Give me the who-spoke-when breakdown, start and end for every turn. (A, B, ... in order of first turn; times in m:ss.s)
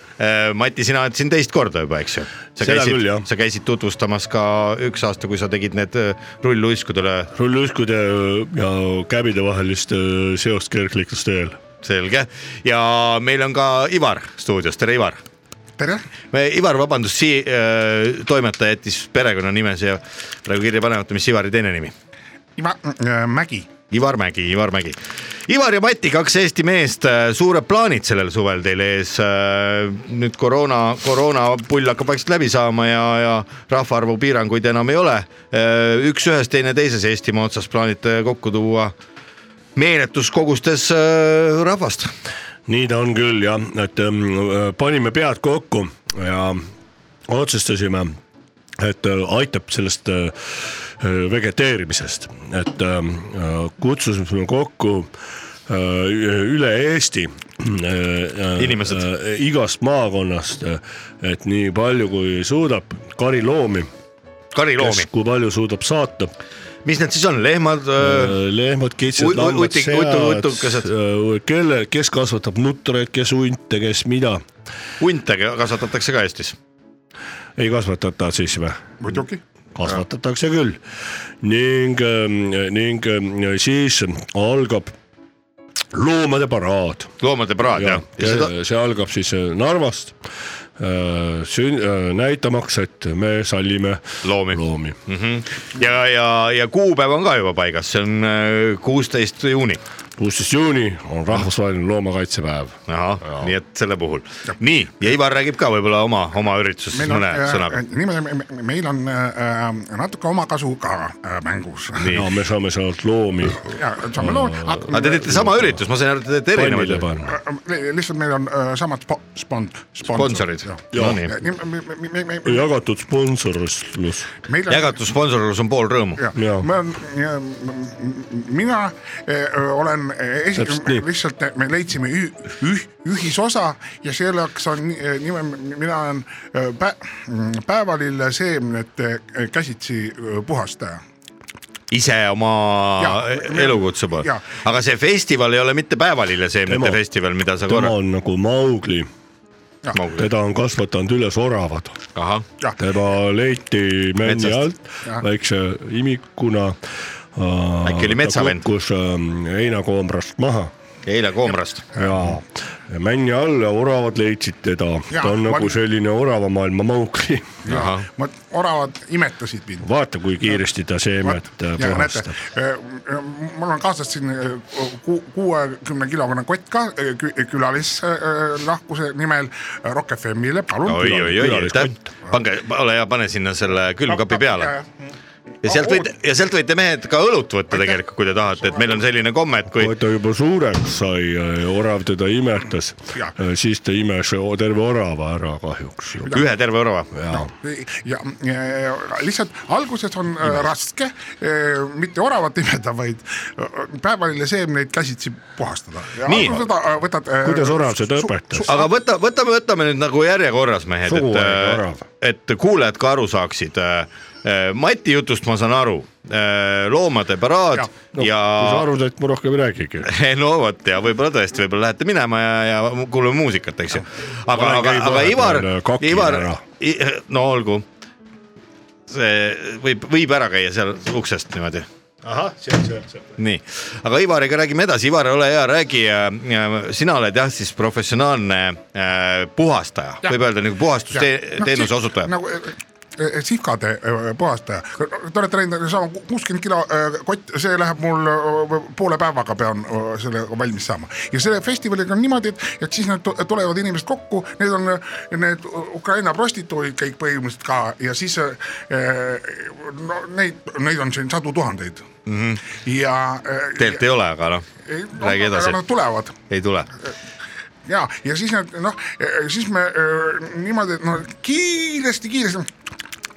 0:00.2-0:07.3 A
0:02.6-0:03.3 B
0:07.4-0:11.6 B
0:11.8-0:15.2 A
0:15.8-0:16.0 C
0:16.3-0:21.9 A
0:22.6-0:23.7 C
0:23.9-0:39.0 A
0:39.8-0:42.1 A
0:42.7-0:46.7 B
0:47.3-0:48.2 B
0:48.8-0:55.1 B
0:55.7-1:03.9 B
0:58.6-0:59.0 A
1:04.5-1:05.1 A
1:04.8-1:06.3 B
1:06.8-1:08.4 A
1:08.0-1:14.4 B
1:09.2-1:10.9 A
1:15.0-1:16.6 A
1:17.6-1:18.8 B
1:19.0-1:19.4 C
1:19.8-1:20.8 B
1:21.4-1:24.9 B
1:25.9-1:27.1 B
1:27.2-1:28.5 A
1:27.7-1:30.2 B
1:30.8-1:35.0 B
1:34.2-1:39.8 A
1:40.2-1:43.5 B
1:42.9-1:47.8 A
1:46.9-1:52.1 C
1:52.0-1:52.3 A
1:52.1-1:55.8 B
1:53.7-1:55.4 C
1:54.9-1:57.2 A
1:56.5-1:57.4 B
1:57.3-2:02.6 C
2:00.1-2:01.4 A
2:00.9-2:01.2 B
2:02.4-2:04.3 B
2:04.5-2:05.0 C
2:04.7-2:06.3 A
2:06.2-2:21.0 C
2:06.4-2:06.7 B
2:10.6-2:11.0 B
2:21.9-2:28.0 A
2:23.0-2:24.5 C
2:26.7-2:27.0 B
2:27.7-2:29.1 B
2:29.9-2:30.3 A
2:30.2-2:32.0 B
2:32.2-2:32.4 A
2:32.8-2:36.8 B
2:34.2-2:34.6 A
2:37.4-2:40.7 B
2:37.8-2:38.6 A
2:41.0-2:41.9 A
2:42.0-2:47.6 B
2:45.1-2:45.8 C
2:47.7-2:48.1 A
2:47.7-2:49.9 C
2:49.8-2:52.4 B
2:51.2-3:01.3 C
3:00.9-3:04.7 A
3:01.0-3:02.1 B
3:04.1-3:05.1 C
3:05.6-3:06.1 C
3:05.6-3:09.9 A
3:07.7-3:08.0 C
3:08.6-3:09.0 C
3:09.7-3:16.4 B
3:16.3-3:17.1 A
3:17.2-3:17.5 B
3:17.3-3:28.8 C
3:26.2-3:26.7 A
3:27.4-3:28.8 B
3:28.7-3:38.9 A
3:31.1-3:32.0 B
3:38.1-3:40.1 B
3:40.0-3:47.9 A
3:44.5-3:46.6 B
3:49.1-3:51.9 A
3:52.2-3:53.3 B
3:53.4-4:02.3 A
4:01.1-4:22.1 C
4:22.3-4:22.6 A
4:22.7-4:24.0 C
4:23.8-4:25.8 A
4:24.8-4:26.4 C
4:26.5-4:26.9 A
4:27.9-4:32.7 C